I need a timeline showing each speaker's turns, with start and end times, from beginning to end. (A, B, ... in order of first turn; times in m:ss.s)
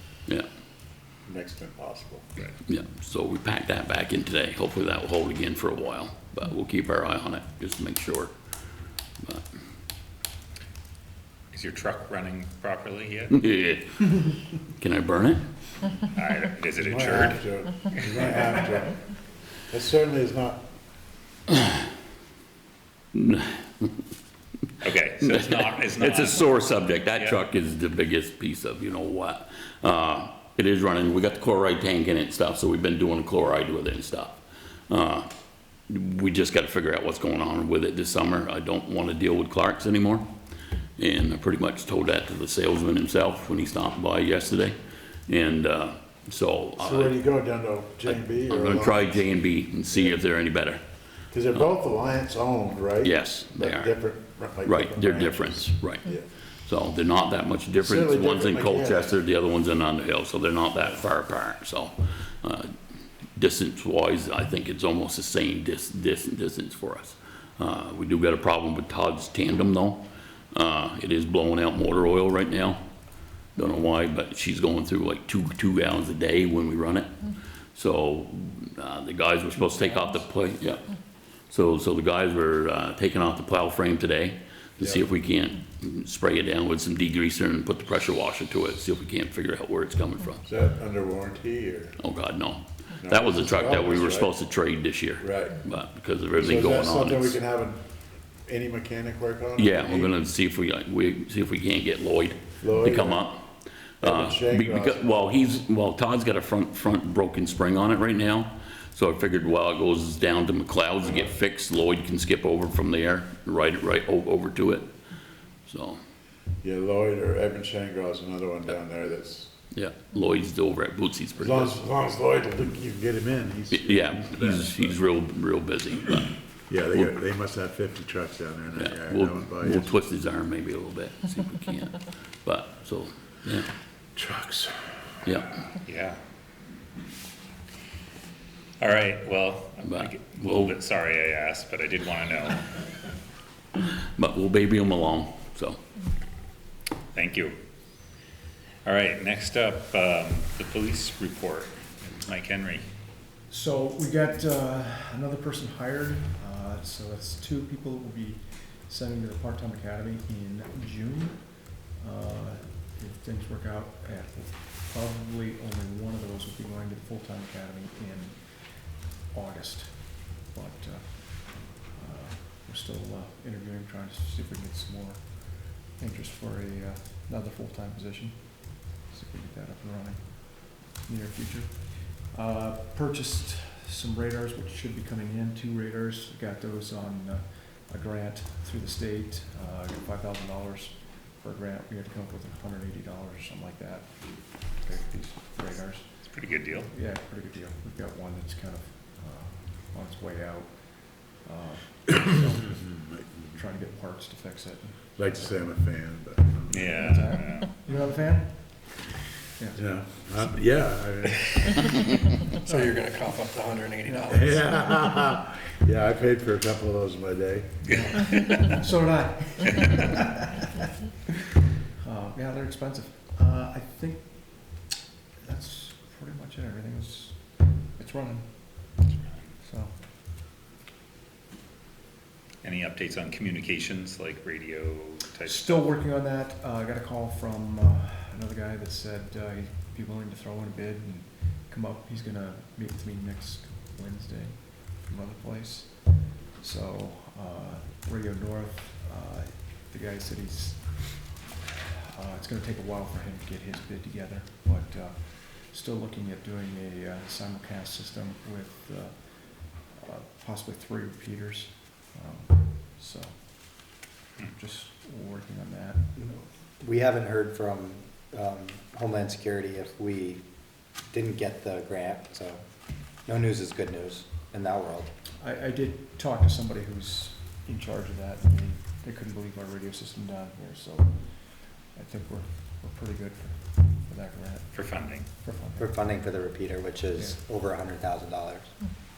0:01.2-0:02.4 A
0:02.6-0:08.3 B
0:09.2-0:09.4 B
0:11.5-0:13.4 C
0:13.3-0:14.1 B
0:14.8-0:15.4 B
0:16.1-0:18.3 C
0:16.8-0:19.0 A
0:19.7-0:20.6 A
0:23.1-0:23.9 B
0:24.8-0:27.4 C
0:25.2-0:35.3 B
0:35.9-0:40.2 B
0:41.0-0:44.8 B
0:45.3-0:47.3 B
0:46.8-0:50.2 A
0:48.0-0:50.8 B
0:51.3-0:56.3 A
0:53.0-1:02.7 B
0:57.8-0:59.2 A
1:03.4-1:12.8 B
1:13.5-1:17.1 B
1:17.7-1:30.4 B
1:24.8-1:25.1 A
1:30.4-1:32.0 A
1:32.0-1:37.4 B
1:33.0-1:34.4 A
1:35.2-1:35.7 A
1:36.3-1:37.8 A
1:38.4-1:40.1 A
1:39.6-1:43.4 B
1:42.6-1:43.3 A
1:44.0-1:45.6 A
1:44.0-1:54.9 B
1:55.6-1:56.0 B
1:56.6-1:59.5 A
1:59.7-2:01.8 B
2:01.3-2:05.0 A
2:03.7-2:06.4 B
2:06.7-2:10.0 A
2:08.7-2:13.7 B
2:14.1-2:14.9 A
2:15.2-2:15.6 B
2:15.8-2:16.2 C
2:18.8-2:22.8 C
2:19.8-2:20.8 B
2:24.2-2:25.8 B
2:27.1-2:27.5 C
2:28.8-2:32.8 C
2:33.5-3:25.5 D
3:16.3-3:16.9 C
3:25.2-3:26.8 A
3:26.7-3:27.7 C
3:26.9-3:30.4 D
3:29.7-3:31.6 A
3:32.6-3:35.2 E
3:32.6-3:33.0 D
3:34.0-3:34.6 D
3:34.3-3:37.8 A
3:37.9-3:40.5 D
3:42.0-3:44.8 D
3:45.4-3:49.0 D
3:49.6-3:50.0 D
3:52.6-3:55.9 C
3:55.4-4:26.2 D
4:26.2-4:30.4 F
4:31.0-4:32.6 F
4:33.2-4:35.1 F
4:35.4-4:46.2 D
4:44.7-4:45.2 C
4:45.8-4:48.8 F